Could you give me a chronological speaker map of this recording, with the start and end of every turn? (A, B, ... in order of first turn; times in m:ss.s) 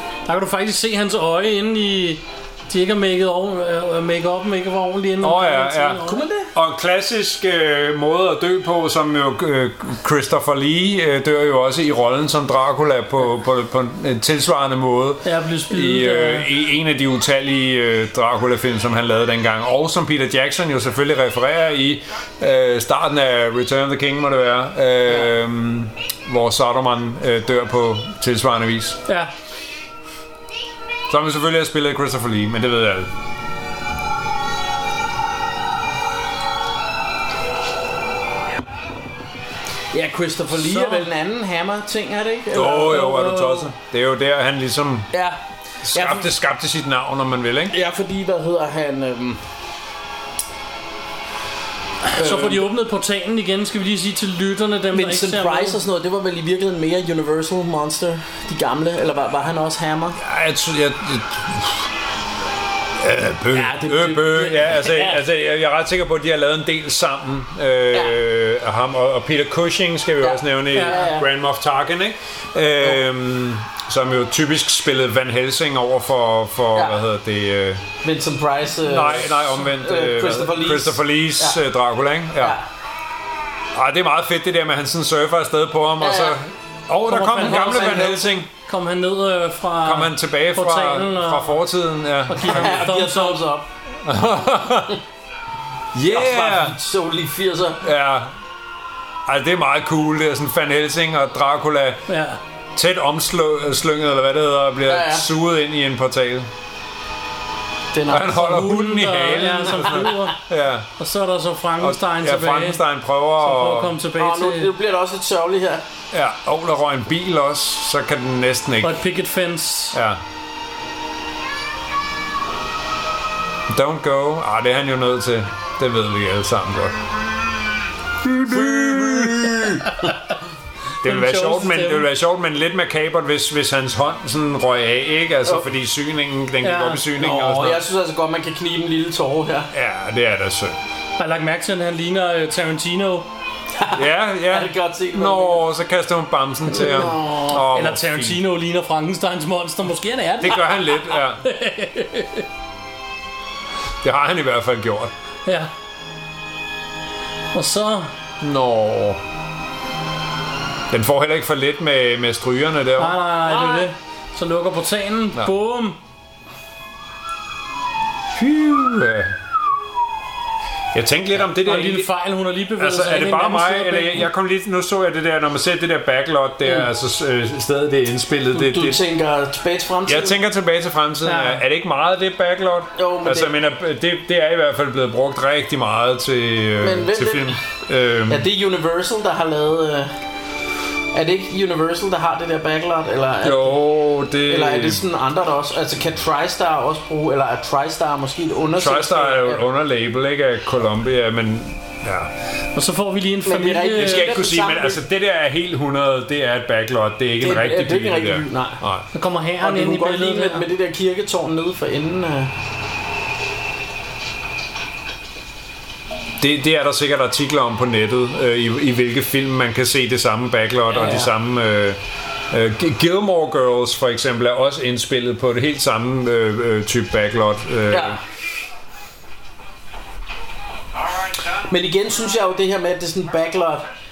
0:00.3-0:06.2 A
0:05.2-0:29.0 B
0:06.0-0:06.5 C
0:15.2-0:16.5 A
0:29.1-0:29.3 A
0:31.1-0:33.1 B
0:39.9-0:43.2 C
0:40.5-0:41.1 A
0:42.5-0:45.1 B
0:42.8-0:43.7 A
0:45.1-0:46.3 C
0:45.8-0:47.7 B
0:47.7-0:49.4 C
0:52.1-0:55.8 A
0:52.1-0:52.6 C
0:54.9-1:00.2 C
1:00.2-1:01.9 B
1:03.0-1:17.8 B
1:03.5-1:05.2 C
1:10.2-1:11.2 C
1:10.7-1:11.1 A
1:16.7-1:17.0 C
1:18.0-1:21.6 C
1:18.8-1:22.6 B
1:22.4-1:22.7 C
1:23.7-1:28.5 B
1:26.0-1:26.4 C
1:27.1-1:31.6 A
1:27.4-1:28.2 C
1:29.8-1:32.8 B
1:32.3-1:33.4 A
1:32.3-1:33.7 C
1:34.0-1:35.0 B
1:35.9-1:36.8 B
1:36.0-1:37.8 C
1:37.8-1:38.3 B
1:39.3-1:42.0 B
1:42.1-1:42.4 A
1:42.7-1:46.5 B
1:44.8-1:45.2 C
1:47.9-1:48.5 C
1:48.1-1:50.9 B
1:48.1-1:50.4 A
1:51.0-1:52.8 A
1:51.8-1:53.9 B
1:53.4-1:54.7 A
1:54.2-1:55.8 C
1:56.1-1:59.0 B
1:58.8-2:00.0 A
1:59.9-2:00.2 B
2:03.7-2:07.2 B
2:08.2-2:10.0 B
2:08.4-2:09.7 C
2:11.0-2:12.1 A
2:11.0-2:17.8 B
2:16.6-2:17.0 A
2:17.2-2:19.7 C
2:19.7-2:20.8 B
2:21.2-2:23.3 A
2:23.7-2:25.6 C
2:23.9-2:28.4 B
2:26.7-2:27.6 C
2:27.5-2:32.4 A
2:30.4-2:31.4 B
2:34.0-2:35.1 B
2:37.5-2:38.1 A
2:38.4-2:39.2 B
2:40.9-2:43.2 B
2:43.0-2:46.0 A
2:43.5-2:43.9 C
2:48.3-2:49.4 B
2:50.9-2:52.1 B
2:51.5-2:54.3 A
2:52.8-2:59.0 B
2:58.5-3:00.4 C
3:00.0-3:08.5 B
3:01.2-3:01.6 A
3:03.0-3:03.5 C
3:06.8-3:07.6 C
3:08.3-3:10.1 C
3:11.1-3:13.8 C
3:13.4-3:15.0 B
3:14.5-3:19.6 C
3:18.8-3:22.3 B
3:22.7-3:24.4 A
3:23.4-3:25.0 C
3:24.0-3:29.1 B
3:27.4-3:28.8 C
3:29.1-3:30.7 A
3:29.6-3:32.5 C
3:36.4-3:42.0 B
3:40.9-3:41.3 C
3:42.5-3:48.2 B
3:47.9-3:48.2 C
3:51.5-3:53.8 C